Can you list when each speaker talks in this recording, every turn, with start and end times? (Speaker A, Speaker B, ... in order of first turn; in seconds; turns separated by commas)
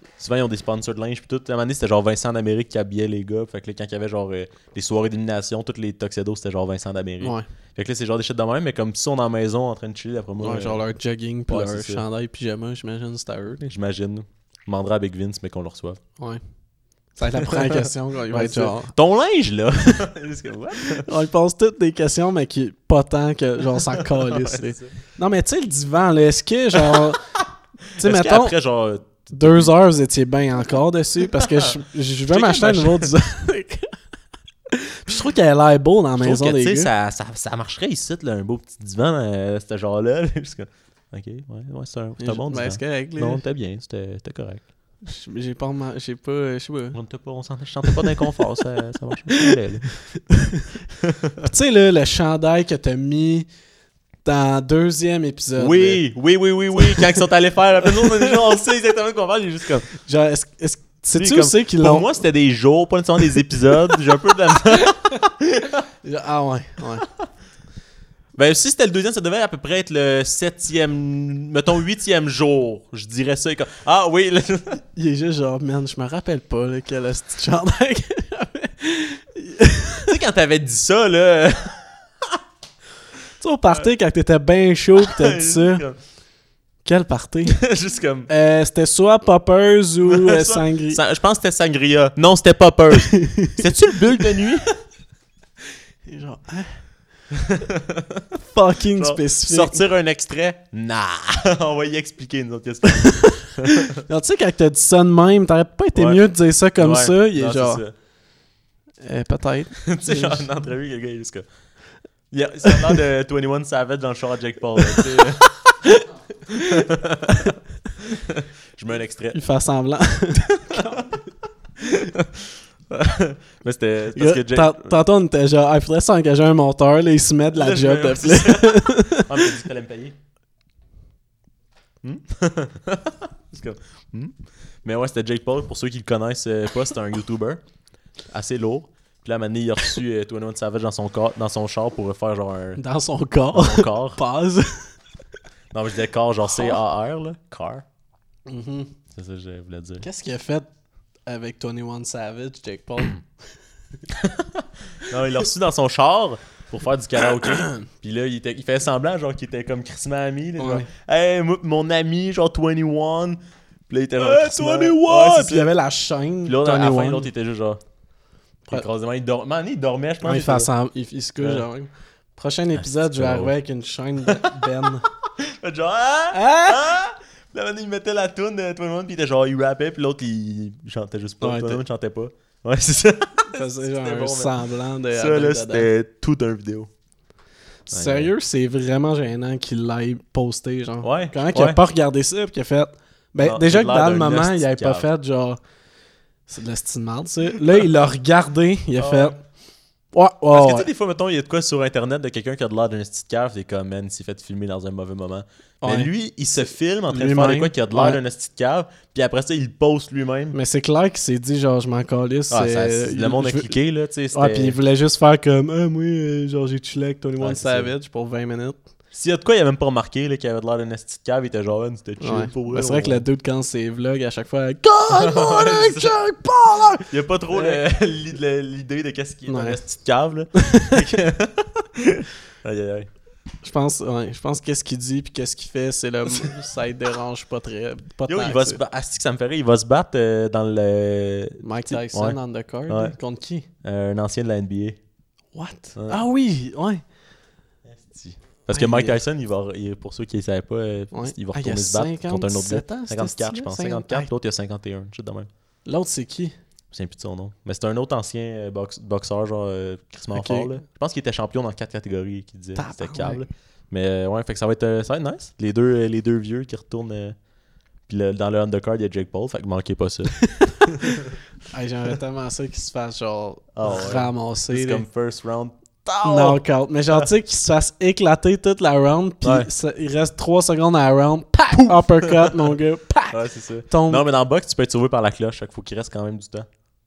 Speaker A: 0.2-10.8, Speaker B: 10.4-13.7, Speaker A: 11.5-12.0, Speaker A: 13.7-16.0, Speaker B: 17.1-18.9, Speaker A: 18.3-21.1, Speaker B: 21.0-27.2, Speaker A: 24.1-24.9, Speaker B: 28.0-28.6, Speaker A: 28.0-29.7, Speaker B: 29.3-33.9, Speaker A: 32.3-33.1, Speaker B: 34.7-36.9, Speaker A: 36.2-44.6, Speaker B: 42.2-43.4, Speaker B: 45.0-47.0, Speaker A: 46.9-49.9, Speaker B: 50.3-50.6, Speaker B: 51.4-53.5, Speaker B: 54.2-56.0, Speaker A: 55.6-59.9, Speaker B: 56.7-57.2, Speaker B: 60.0-62.2, Speaker A: 61.1-65.8, Speaker B: 66.0-67.1, Speaker A: 68.3-74.8, Speaker B: 75.0-80.1, Speaker A: 80.1-81.8, Speaker B: 83.4-85.8, Speaker A: 85.0-86.0, Speaker B: 86.8-87.7, Speaker A: 87.6-88.3, Speaker B: 88.3-91.0, Speaker A: 90.1-94.8, Speaker B: 93.1-93.6, Speaker B: 96.1-96.8, Speaker A: 97.6-98.0, Speaker B: 98.5-99.8, Speaker A: 99.0-103.9, Speaker B: 102.9-103.5, Speaker B: 104.1-107.8, Speaker A: 105.9-107.9, Speaker B: 109.0-110.5, Speaker A: 109.8-111.5, Speaker A: 112.3-115.7, Speaker A: 116.5-117.5, Speaker A: 118.3-119.4, Speaker B: 119.3-121.2, Speaker A: 120.7-121.0, Speaker A: 121.9-122.3, Speaker A: 122.9-124.9, Speaker B: 124.2-129.5, Speaker A: 127.6-130.1, Speaker A: 132.0-137.6, Speaker A: 138.3-142.8, Speaker B: 142.8-144.9, Speaker A: 143.5-144.2, Speaker A: 145.7-147.8, Speaker B: 146.5-146.8, Speaker B: 148.5-148.9, Speaker A: 149.1-150.1, Speaker B: 150.0-150.7, Speaker B: 151.3-153.2, Speaker A: 154.2-165.7, Speaker B: 157.4-157.8, Speaker B: 160.6-160.9, Speaker B: 164.2-167.3, Speaker A: 166.5-167.8, Speaker A: 168.7-170.7, Speaker B: 170.2-175.1, Speaker A: 171.4-171.6, Speaker A: 172.8-173.5, Speaker A: 175.6-184.5, Speaker B: 176.3-176.8, Speaker B: 181.4-181.8, Speaker B: 183.5-185.9, Speaker A: 185.1-186.9, Speaker A: 187.9-188.3, Speaker B: 187.9-195.6, Speaker A: 191.0-191.8, Speaker A: 193.4-195.1, Speaker B: 196.5-199.4, Speaker A: 199.0-199.3, Speaker B: 200.1-200.9, Speaker A: 200.5-210.6, Speaker B: 205.8-208.2, Speaker B: 210.5-213.8, Speaker A: 212.5-214.8, Speaker B: 214.3-218.8, Speaker A: 217.4-217.9, Speaker A: 219.1-223.2, Speaker B: 222.2-227.8, Speaker A: 225.1-226.1, Speaker A: 227.1-233.1, Speaker B: 229.5-229.8, Speaker B: 230.5-231.1, Speaker B: 233.6-238.8, Speaker A: 238.3-243.2, Speaker B: 241.6-243.7, Speaker A: 243.8-245.0, Speaker B: 245.5-247.0, Speaker A: 245.9-246.2, Speaker A: 247.9-255.5, Speaker B: 248.7-249.2, Speaker B: 251.1-254.3, Speaker B: 255.8-256.5, Speaker A: 256.9-267.4, Speaker B: 260.3-260.7, Speaker B: 262.8-263.4, Speaker A: 268.1-270.5, Speaker B: 271.7-275.0, Speaker A: 273.8-276.6, Speaker B: 276.2-284.2, Speaker A: 279.4-279.7, Speaker A: 281.7-282.6, Speaker A: 283.3-286.7